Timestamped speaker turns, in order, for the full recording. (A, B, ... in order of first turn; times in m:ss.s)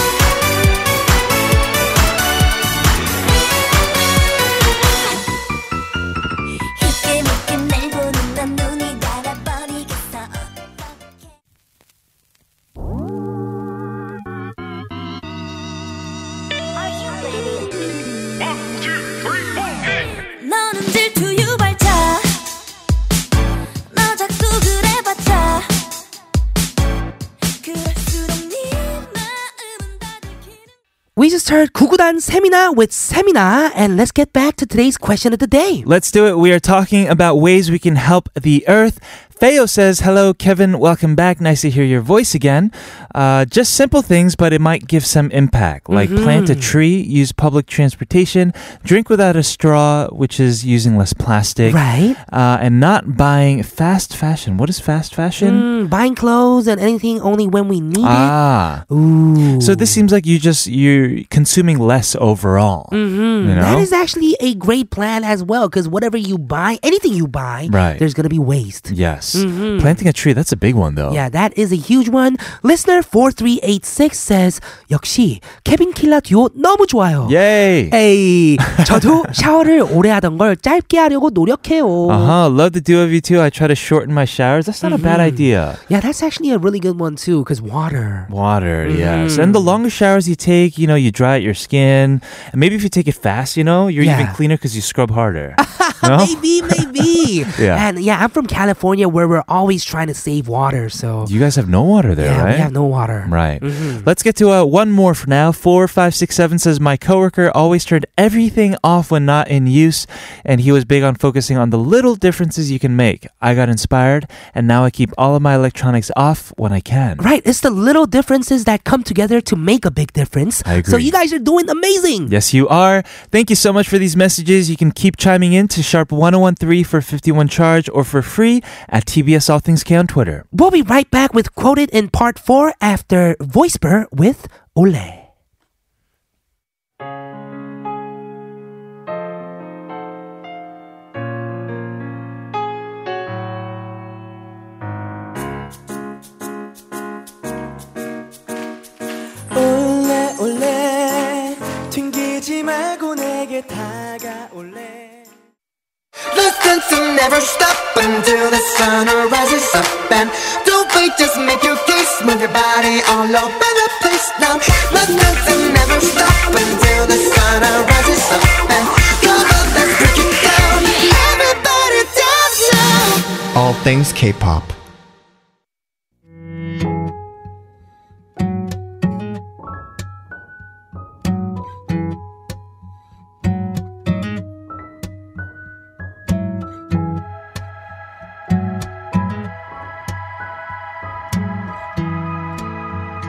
0:06.8-0:11.2 A
0:16.8-0:18.6 A
0:19.8-0:22.5 A
0:23.9-0:25.9 A
0:27.6-0:30.7 A
0:31.2-0:35.9 B
0:35.8-0:55.7 C
0:45.9-0:46.8 B
0:51.6-0:52.2 B
0:55.4-0:58.4 B
0:58.0-0:58.8 C
0:58.9-1:00.0 B
0:59.6-1:03.9 C
1:02.9-1:10.0 B
1:07.7-1:08.0 C
1:08.9-1:11.2 C
1:11.1-1:22.4 B
1:17.2-1:18.0 C
1:18.6-1:19.0 C
1:22.1-1:25.8 C
1:24.8-1:28.3 B
1:28.3-1:37.8 C
1:28.8-1:29.8 B
1:34.0-1:34.4 B
1:35.6-1:41.3 B
1:41.2-1:42.7 C
1:42.2-1:44.1 B
1:43.2-1:57.2 C
1:57.2-2:02.3 B
2:00.6-2:01.1 C
2:02.3-2:10.4 C
2:10.5-2:15.3 B
2:29.5-2:35.3 D
2:36.3-2:54.7 E